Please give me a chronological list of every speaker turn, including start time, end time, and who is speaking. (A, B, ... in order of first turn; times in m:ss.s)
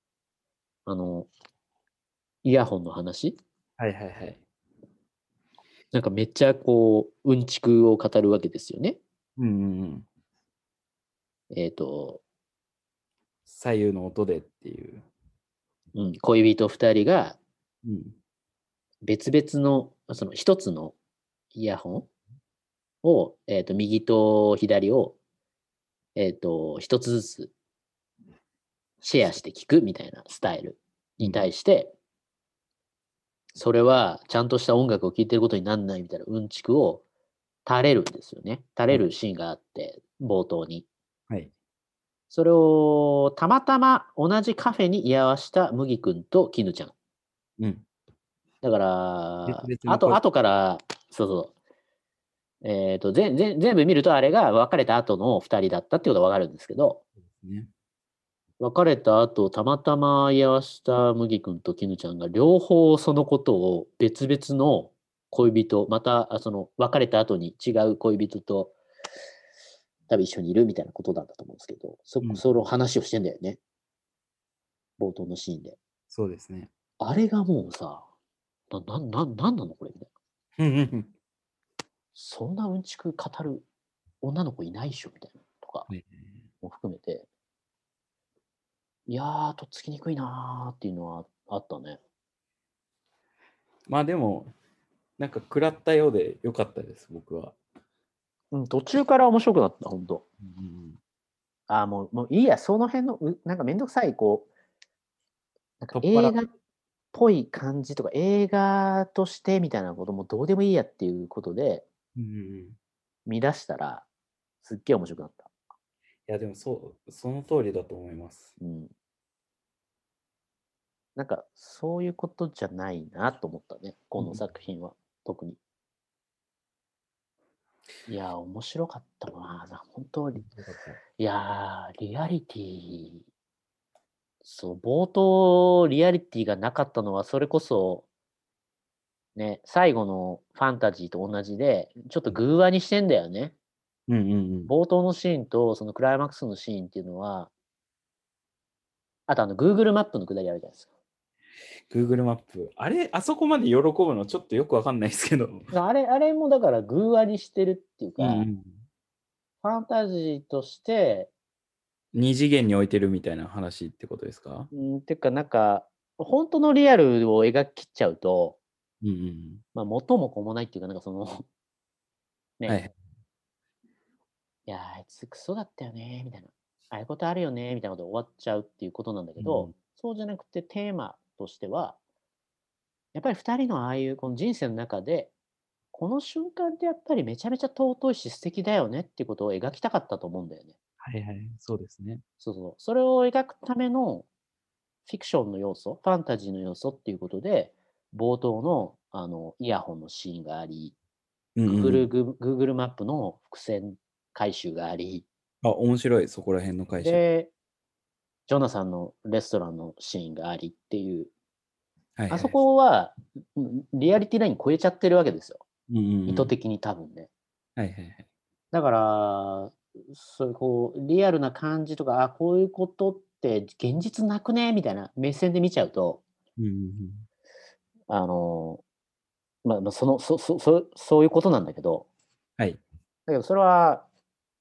0:00.9-0:01.3 A
0:02.4-0:03.4 A
0:03.8-0:04.4 B
0:05.9-0:09.0 A
0:09.4-0:10.1 B
0:11.5-0:12.2 A
0:13.5-0:15.0 B
0:16.0-0:17.4 A
0:17.8-0:18.2 B
0:19.0-0:21.0 A
0:21.5-0:22.1 A
0:23.0-0:25.2 A
0:26.2-0:27.5 A
0:29.0-0:31.9 A
0:31.2-0:31.5 B
0:33.6-0:37.0 A
0:37.7-0:40.9 A
0:42.3-0:46.9 A
0:47.6-0:47.8 B
0:48.6-0:51.5 A
0:49.5-0:50.2 B
0:52.6-0:57.0 A
0:57.2-0:57.7 B
0:58.6-1:08.8 A
1:10.1-1:13.6 A
1:15.0-1:15.8 A
1:16.1-1:16.7 B
1:17.0-1:18.1 A
1:18.7-1:20.1 A
1:20.6-1:21.1 B
1:22.2-1:23.7 A
1:24.2-1:25.9 A
1:25.9-1:26.4 B
1:26.6-1:27.3 A
1:29.1-1:32.0 A
1:33.9-1:34.5 B
1:35.2-1:37.6 B
1:38.5-1:40.2 A
1:40.4-1:41.0 B
1:41.7-1:44.5 A
1:45.8-1:46.5 A
1:46.0-1:46.4 B
1:47.1-1:51.8 A
1:52.2-1:52.8 B
1:53.3-1:54.1 A
1:54.6-1:55.5 A
1:56.3-1:58.6 B
1:58.6-1:58.9 A
2:01.2-2:05.6 A
2:04.2-2:04.4 B
2:08.1-2:10.5 A
2:10.4-2:11.0 B
2:11.2-2:13.2 A
2:14.4-2:18.1 A
2:19.4-2:23.5 A
2:24.1-2:24.7 B
2:24.7-2:27.5 A
2:29.3-2:30.9 A
2:31.9-2:35.7 B
2:35.7-2:38.5 A
2:38.2-2:38.8 B
2:39.6-2:41.3 A
2:42.1-2:44.7 B
2:44.7-2:48.6 A
2:49.0-2:49.6 B
2:49.7-2:51.5 A
2:52.7-2:52.9 B
2:54.7-3:02.0 A
2:59.4-2:59.7 B
3:03.1-3:05.3 A
3:05.9-3:10.8 A
3:11.0-3:12.2 B
3:12.4-3:14.3 A
3:15.1-3:21.0 A
3:21.6-3:22.1 B
3:21.7-3:25.3 A
3:25.6-3:27.2 B
3:27.0-3:27.5 A
3:28.5-3:31.3 A
3:32.2-3:32.6 B
3:32.3-3:35.6 A
3:35.9-3:36.5 B
3:36.3-3:37.3 A
3:37.8-3:38.3 B
3:38.7-3:46.2 A
3:46.6-3:47.2 B
3:48.1-3:48.8 A
3:49.6-3:52.1 A
3:53.3-3:54.1 A